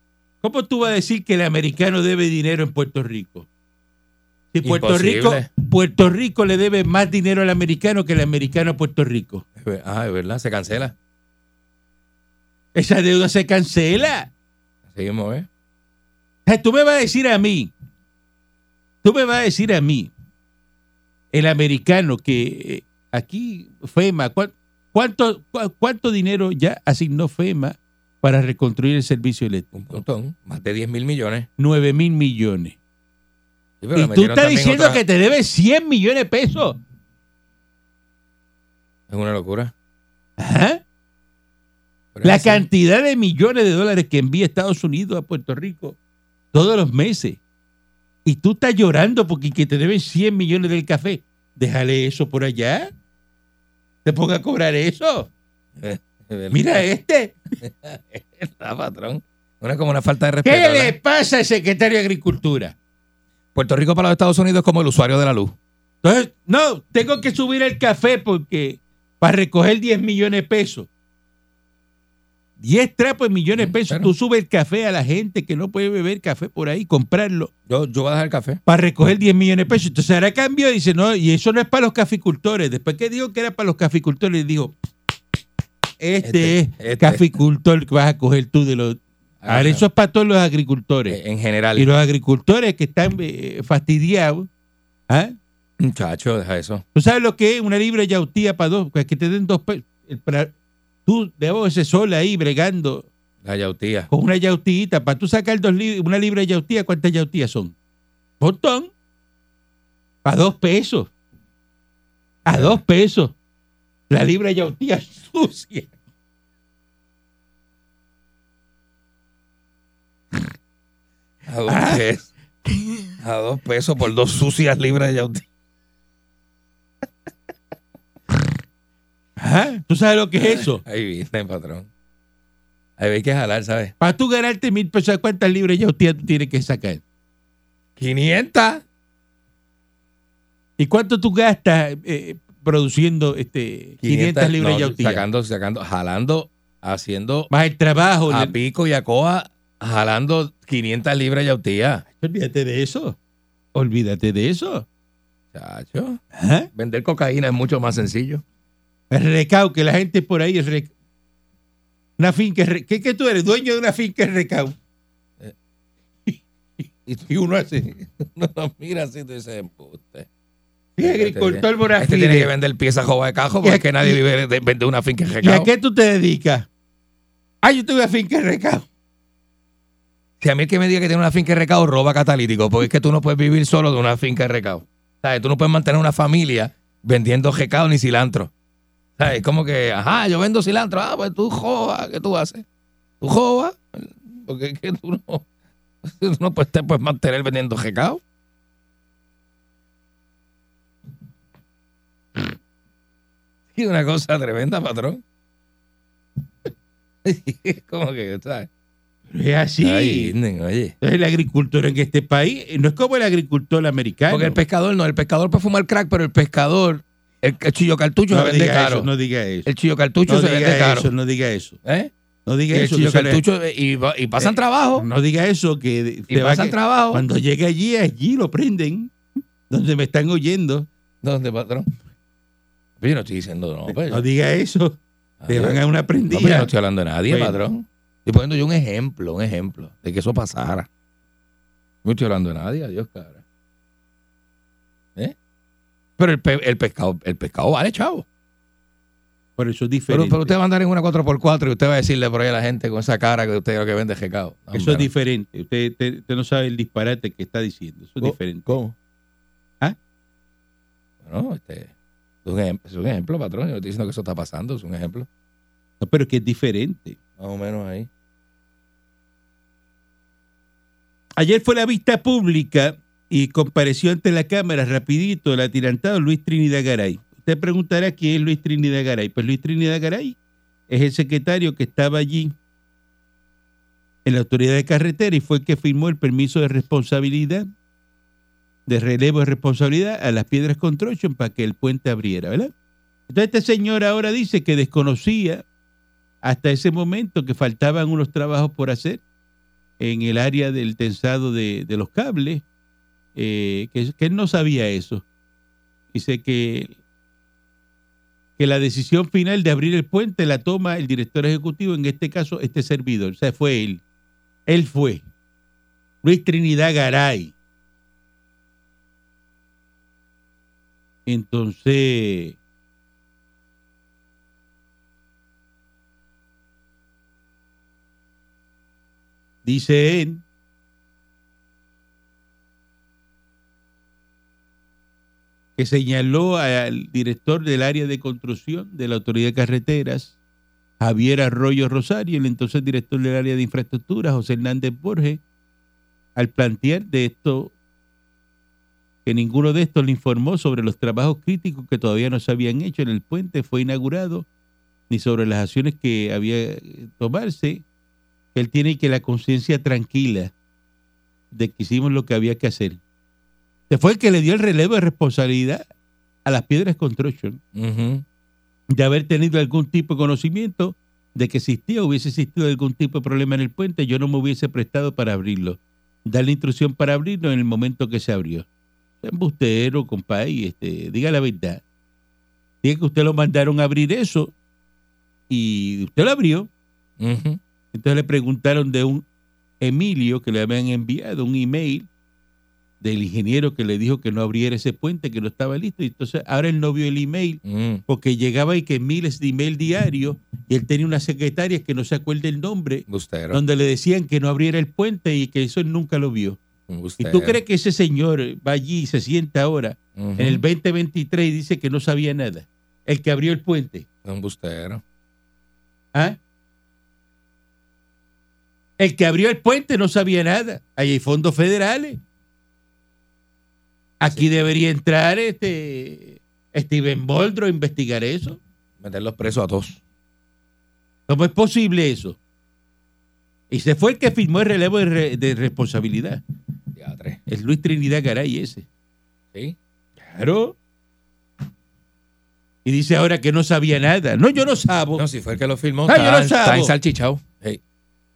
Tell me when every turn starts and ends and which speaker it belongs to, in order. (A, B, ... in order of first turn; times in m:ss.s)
0:00.4-0:03.5 A
0:04.5-0:09.4 A
0:04.6-0:05.5 B
0:09.6-0:10.9 B
0:12.7-0:14.3 A
0:14.9-0:15.5 B
0:16.4-0:17.7 A
0:19.0-0:20.1 A
0:21.3-0:30.0 A
0:29.7-0:31.5 B
0:31.6-0:32.8 A
0:33.8-0:35.0 B
0:33.9-0:36.8 A
0:39.1-0:39.7 B
0:40.4-0:40.8 A
0:42.1-0:42.6 B
0:42.2-0:46.0 A
0:46.5-0:47.4 A
0:48.2-0:52.9 A
0:54.0-0:55.3 A
0:55.8-0:56.8 B
0:56.5-0:57.3 A
0:57.6-1:00.9 B
1:00.4-1:02.7 A
1:03.5-1:05.5 B
1:06.0-1:10.9 A
1:12.6-1:17.5 A
1:13.6-1:14.1 B
1:17.7-1:18.6 B
1:18.6-1:24.7 A
1:26.0-1:31.2 A
1:26.2-1:27.4 B
1:29.4-1:29.8 B
1:31.1-1:31.9 B
1:31.8-1:34.5 A
1:35.1-1:35.3 A
1:35.8-1:36.8 B
1:36.9-1:40.5 A
1:41.0-1:43.1 A
1:43.4-1:44.1 B
1:44.1-1:47.7 A
1:48.4-1:48.9 A
1:50.2-1:51.1 A
1:52.4-1:53.3 A
1:52.5-1:52.8 B
1:54.1-1:55.9 A
2:01.5-2:02.3 B
2:01.7-2:02.0 A
2:03.2-2:05.4 B
2:09.4-2:10.8 A
2:10.4-2:11.9 B
2:13.0-2:13.9 B
2:14.0-2:17.0 A
2:18.0-2:18.8 B
2:20.8-2:25.2 A
2:24.0-2:27.5 B
2:27.5-2:28.5 A
2:28.3-2:32.0 B
2:32.2-2:33.2 A
2:33.7-2:34.8 A
2:35.5-2:36.2 B
2:36.3-2:36.7 A
2:36.7-2:38.4 B
2:39.1-2:40.9 A
2:42.2-2:44.7 A
2:47.0-2:50.3 B
2:47.3-2:47.8 A
2:51.0-2:52.5 A
2:51.0-2:55.7 B
2:53.6-2:54.2 A
2:55.4-2:56.6 A
2:57.6-2:58.8 A
3:00.4-3:08.5 B
3:09.2-3:12.6 B
3:13.2-3:15.4 B
3:16.0-3:18.2 B
3:23.7-3:25.2 B
3:27.2-3:28.7 B
3:29.3-3:30.3 A
3:29.8-3:30.9 B
3:31.0-3:34.6 A
3:34.3-3:39.1 B
3:38.3-3:39.7 A
3:39.6-3:41.1 B
3:40.3-3:41.8 A
3:41.8-3:42.1 B
3:42.5-3:43.4 A
3:42.7-3:45.0 B
3:44.4-3:49.1 A
3:46.3-3:47.2 B
3:49.7-3:50.9 A
3:51.2-3:51.9 B
3:53.0-3:54.2 B
3:53.9-3:55.0 A
3:55.4-4:00.9 B
3:55.5-3:56.7 A
3:57.3-3:57.6 A
4:02.0-4:03.4 B
4:06.2-4:08.2 B
4:09.6-4:10.5 A
4:10.1-4:15.1 B
4:14.7-4:18.7 A
4:18.2-4:18.9 B
4:21.2-4:21.9 B
4:22.4-4:25.3 B
4:26.0-4:27.2 A
4:27.4-4:28.1 B
4:31.4-4:40.4 A
4:40.9-4:42.5 A
4:44.2-4:47.7 A
4:48.9-4:52.7 A
4:53.3-4:55.6 A
4:56.4-4:59.2 A
5:00.0-5:02.6 A
5:03.4-5:05.2 A
5:06.1-5:07.0 A
5:08.6-5:14.0 A
5:14.7-5:15.2 A
5:16.2-5:17.5 A
5:21.2-5:22.6 A
5:29.6-5:30.4 A
5:35.8-5:40.3 A
5:41.0-5:45.4 A
5:46.4-5:47.7 A
5:49.2-5:54.4 A
5:55.1-5:57.8 A
5:58.5-6:00.5 A
6:01.5-6:03.0 A
6:03.9-6:05.8 A
6:06.4-6:07.6 A
6:07.7-6:08.2 B
6:08.9-6:18.6 A
6:19.2-6:21.8 A
6:22.8-6:24.5 A
6:25.5-6:26.7 A
6:27.2-6:27.6 B
6:27.9-6:29.2 A
6:29.8-6:32.1 A
6:33.0-6:46.6 A
6:37.6-6:38.0 B
6:43.1-6:43.6 B
6:46.9-6:47.6 B
6:47.2-6:54.0 A
6:50.2-6:50.6 B
6:54.2-6:55.0 B
6:59.0-7:02.2 A
7:04.2-7:08.6 A
7:09.0-7:10.0 B
7:11.3-7:12.4 A
7:13.7-7:16.4 A
7:16.9-7:17.4 B
7:17.5-7:18.8 A
7:20.2-7:20.8 A
7:22.8-7:25.2 A
7:25.2-7:27.8 B
7:26.0-7:26.9 A